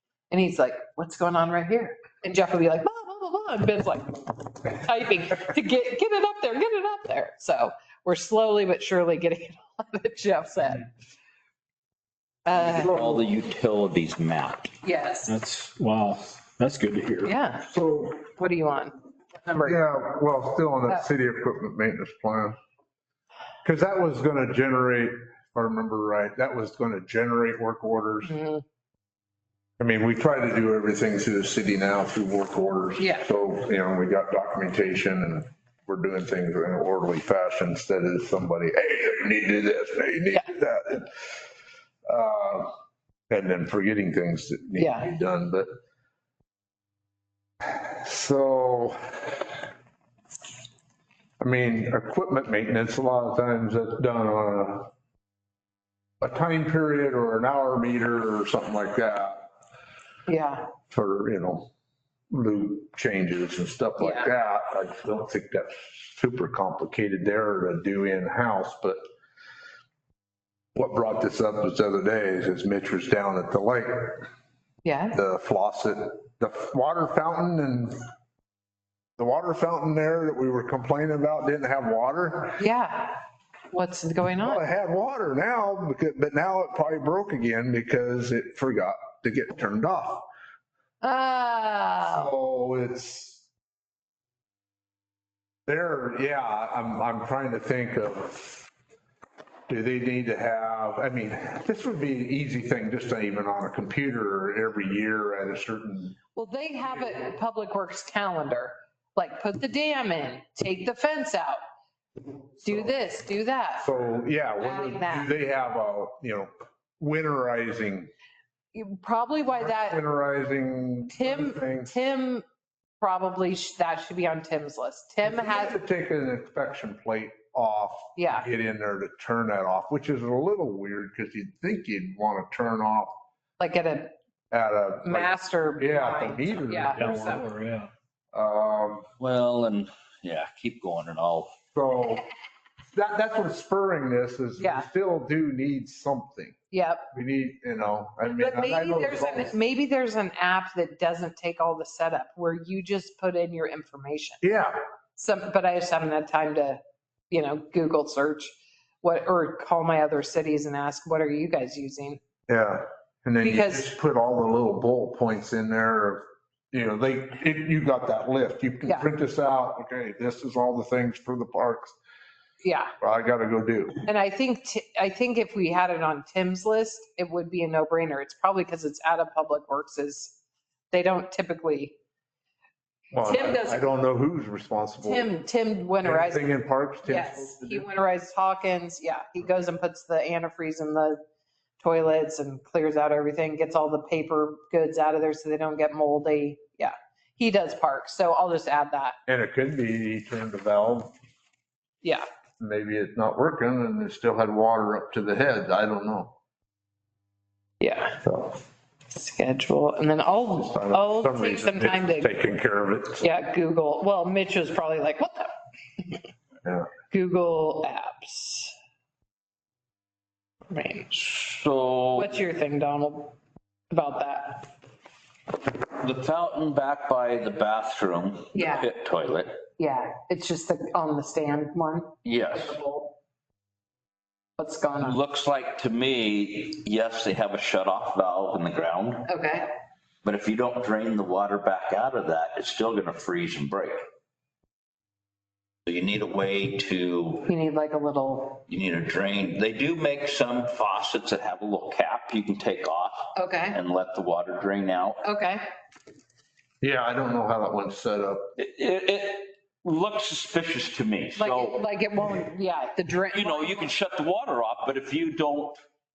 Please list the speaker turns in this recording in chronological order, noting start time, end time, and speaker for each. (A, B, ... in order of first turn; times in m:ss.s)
0:00.3-0:10.9 A
0:12.4-0:13.0 A
0:12.5-0:14.7 B
0:14.8-0:15.4 A
0:15.3-0:17.3 C
0:17.2-0:17.7 A
0:17.7-0:18.2 D
0:18.2-0:19.8 A
0:19.6-0:22.6 D
0:23.6-0:28.3 D
0:28.2-0:28.6 A
0:29.8-0:41.3 D
0:33.0-0:33.3 A
0:42.1-0:42.7 D
0:43.3-0:45.7 D
0:44.8-0:45.1 A
0:47.6-0:49.6 D
0:51.4-0:54.9 D
0:56.2-0:59.4 D
1:00.3-1:00.7 A
1:00.9-1:01.7 D
1:02.3-1:09.0 D
1:04.0-1:04.3 A
1:10.8-1:14.3 D
1:14.8-1:15.2 A
1:15.1-1:18.0 D
1:19.2-1:22.6 D
1:22.6-1:23.2 A
1:23.7-1:24.6 A
1:24.4-1:30.3 D
1:31.0-1:32.3 A
1:32.1-1:33.5 D
1:35.7-1:38.6 D
1:39.7-1:46.2 D
1:46.4-1:51.6 A
1:52.6-1:52.9 D
1:52.6-1:53.9 A
1:53.8-1:58.1 D
1:54.6-1:55.3 A
1:58.7-2:00.0 A
1:59.5-2:02.0 D
2:01.1-2:02.4 A
2:03.0-2:05.8 A
2:05.2-2:13.2 D
2:08.2-2:08.5 A
2:13.6-2:14.1 A
2:14.5-2:17.6 D
2:15.1-2:17.5 A
2:17.0-2:17.9 C
2:18.3-2:19.1 D
2:19.2-2:21.5 B
2:21.7-2:22.3 D
2:22.9-2:26.6 D
2:24.6-2:24.9 A
2:26.7-2:27.0 A
2:27.1-2:29.5 D
2:28.2-2:34.4 A
2:34.4-2:34.8 D
2:35.2-2:36.8 A
2:37.3-2:42.2 A
2:42.5-2:52.0 D
2:43.4-2:43.9 A
2:52.6-2:52.9 A
2:53.0-2:54.0 D
2:54.0-3:00.4 A
3:00.9-3:01.9 A
3:03.1-3:05.3 D
3:03.2-3:03.9 A
3:05.0-3:11.2 A
3:06.0-3:07.9 D
3:11.8-3:19.2 A
3:19.3-3:21.1 D
3:22.6-3:26.3 D
3:27.8-3:28.2 A
3:28.2-3:28.6 D
3:29.1-3:32.3 A
3:30.6-3:33.3 D
3:33.2-3:35.5 A
3:36.6-3:36.9 D
3:37.1-3:38.7 A
3:40.7-3:41.1 A
3:41.1-3:42.3 B
3:42.2-3:43.4 A
3:43.9-3:44.7 A
3:45.9-3:49.6 B
3:48.5-3:48.9 A
3:49.8-3:53.1 A
3:52.2-3:52.8 B
3:54.6-3:55.2 A
3:55.0-3:59.3 B
3:59.3-3:59.7 A
4:00.2-4:04.0 B
4:05.9-4:07.5 B
4:07.5-4:08.6 A
4:08.7-4:15.2 B
4:13.4-4:13.8 A
4:15.2-4:15.6 A
4:16.8-4:18.5 D
4:18.6-4:21.8 B
4:21.4-4:23.9 A
4:23.3-4:25.8 B